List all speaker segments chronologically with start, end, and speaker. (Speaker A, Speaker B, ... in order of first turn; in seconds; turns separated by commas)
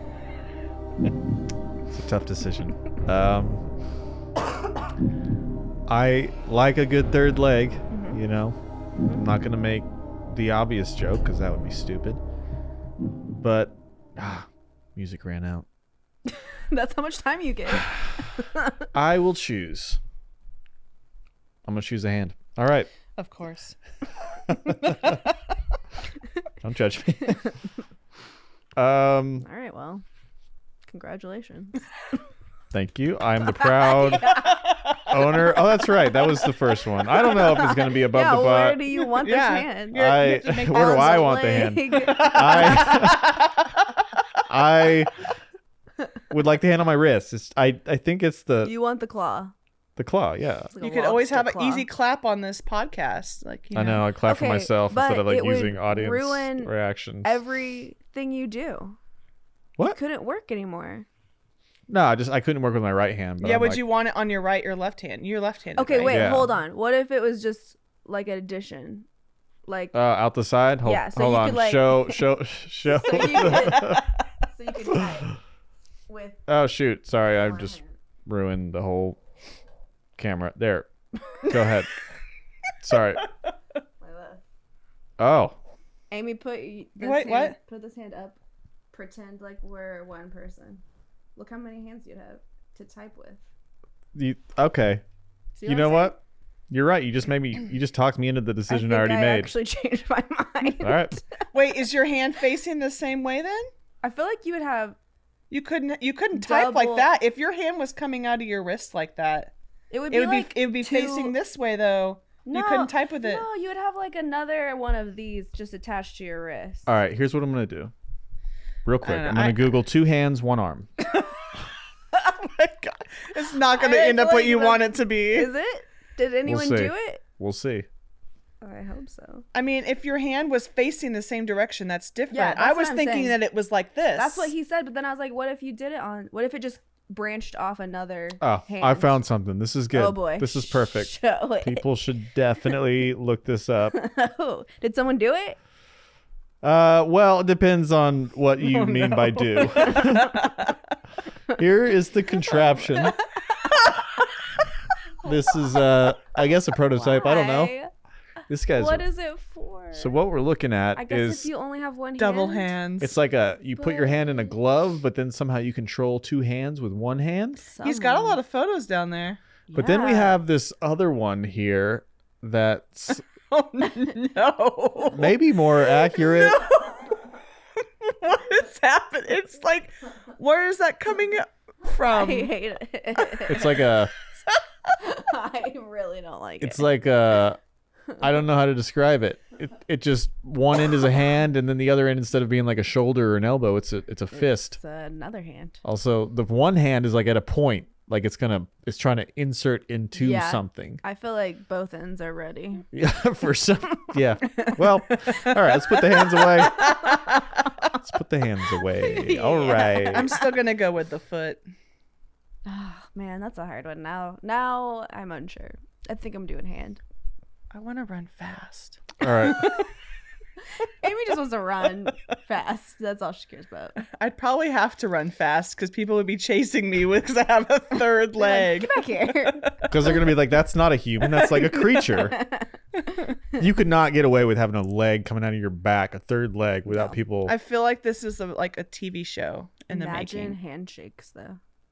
Speaker A: 1.9-3.6, Speaker A: 5.9-8.6, Speaker B: 7.9-8.2, Speaker A: 9.1-12.2, Speaker A: 13.4-15.7, Speaker B: 16.3-18.9, Speaker A: 18.9-20.0, Speaker A: 21.6-22.9, Speaker C: 23.1-23.8, Speaker A: 24.5-25.1, Speaker C: 24.6-25.2, Speaker A: 26.6-27.5, Speaker A: 28.8-29.4, Speaker B: 29.4-30.0, Speaker B: 30.9-31.9, Speaker A: 32.7-34.4, Speaker B: 33.9-34.6, Speaker C: 34.3-35.1, Speaker A: 35.1-38.8, Speaker B: 37.3-43.2, Speaker C: 39.0-41.3, Speaker A: 39.9-43.3, Speaker C: 42.0-44.0, Speaker A: 44.5-45.2, Speaker A: 46.3-48.7, Speaker B: 48.6-49.5, Speaker A: 50.0-50.7, Speaker B: 50.7-51.9, Speaker C: 50.8-54.0, Speaker A: 53.7-57.4, Speaker B: 54.2-59.0, Speaker B: 59.8-61.0, Speaker A: 61.9-63.8, Speaker C: 63.4-66.3, Speaker B: 65.8-69.0, Speaker A: 66.1-66.5, Speaker B: 69.7-69.9, Speaker A: 69.9-74.1, Speaker B: 70.8-72.2, Speaker B: 72.9-75.4, Speaker C: 73.5-74.0, Speaker B: 76.1-76.4, Speaker A: 76.5-79.2, Speaker B: 77.3-77.9, Speaker A: 80.2-80.9, Speaker A: 81.4-81.9, Speaker A: 82.8-83.2, Speaker B: 84.0-84.4, Speaker A: 85.2-85.6, Speaker B: 86.1-88.4, Speaker C: 87.0-87.5, Speaker B: 88.9-90.8, Speaker B: 91.3-93.4, Speaker A: 94.1-95.0, Speaker B: 95.5-96.1, Speaker A: 95.6-96.2, Speaker A: 96.7-99.5, Speaker B: 98.7-101.2, Speaker A: 100.6-101.2, Speaker C: 101.5-103.7, Speaker B: 104.0-105.0, Speaker C: 105.5-109.5, Speaker B: 106.3-107.1, Speaker B: 109.9-111.3, Speaker C: 110.1-113.5, Speaker B: 112.4-116.9, Speaker A: 116.9-117.9, Speaker A: 118.8-120.9, Speaker C: 119.0-119.7, Speaker C: 122.1-125.5, Speaker B: 123.7-127.2, Speaker A: 126.5-127.9, Speaker B: 128.6-129.4, Speaker C: 129.5-134.5, Speaker B: 132.3-133.4, Speaker B: 134.2-139.2, Speaker A: 138.4-143.9, Speaker B: 139.9-141.8, Speaker B: 143.9-145.6, Speaker A: 146.6-150.5, Speaker C: 148.6-150.7, Speaker A: 151.5-153.2, Speaker A: 155.2-157.7, Speaker B: 156.9-157.9, Speaker A: 158.5-159.0, Speaker B: 158.7-160.2, Speaker A: 159.9-161.5, Speaker B: 160.9-162.7, Speaker C: 162.2-163.1, Speaker A: 163.0-167.6, Speaker B: 163.7-164.5, Speaker B: 167.6-168.4, Speaker C: 167.8-169.4, Speaker B: 169.7-170.4, Speaker A: 169.7-173.2, Speaker C: 173.5-177.2, Speaker A: 175.1-176.6, Speaker C: 177.8-182.5, Speaker B: 182.1-183.8, Speaker A: 183.5-184.1, Speaker C: 183.5-183.8, Speaker B: 185.0-186.9, Speaker A: 186.6-187.6, Speaker A: 188.2-194.8, Speaker B: 194.3-195.8, Speaker A: 195.8-201.0, Speaker B: 200.1-202.8, Speaker A: 202.9-207.0, Speaker B: 204.5-204.8, Speaker B: 206.4-207.2, Speaker C: 206.7-207.4, Speaker A: 207.9-210.3, Speaker B: 208.9-210.4, Speaker C: 210.1-211.6, Speaker B: 212.7-217.0, Speaker C: 217.7-219.1, Speaker A: 219.2-219.7, Speaker B: 219.4-219.9, Speaker B: 220.8-224.0, Speaker C: 224.1-229.9, Speaker B: 228.4-229.8, Speaker A: 229.9-232.4, Speaker B: 231.4-232.7, Speaker A: 233.6-237.5, Speaker B: 236.9-237.2, Speaker C: 237.4-240.6, Speaker B: 239.9-241.6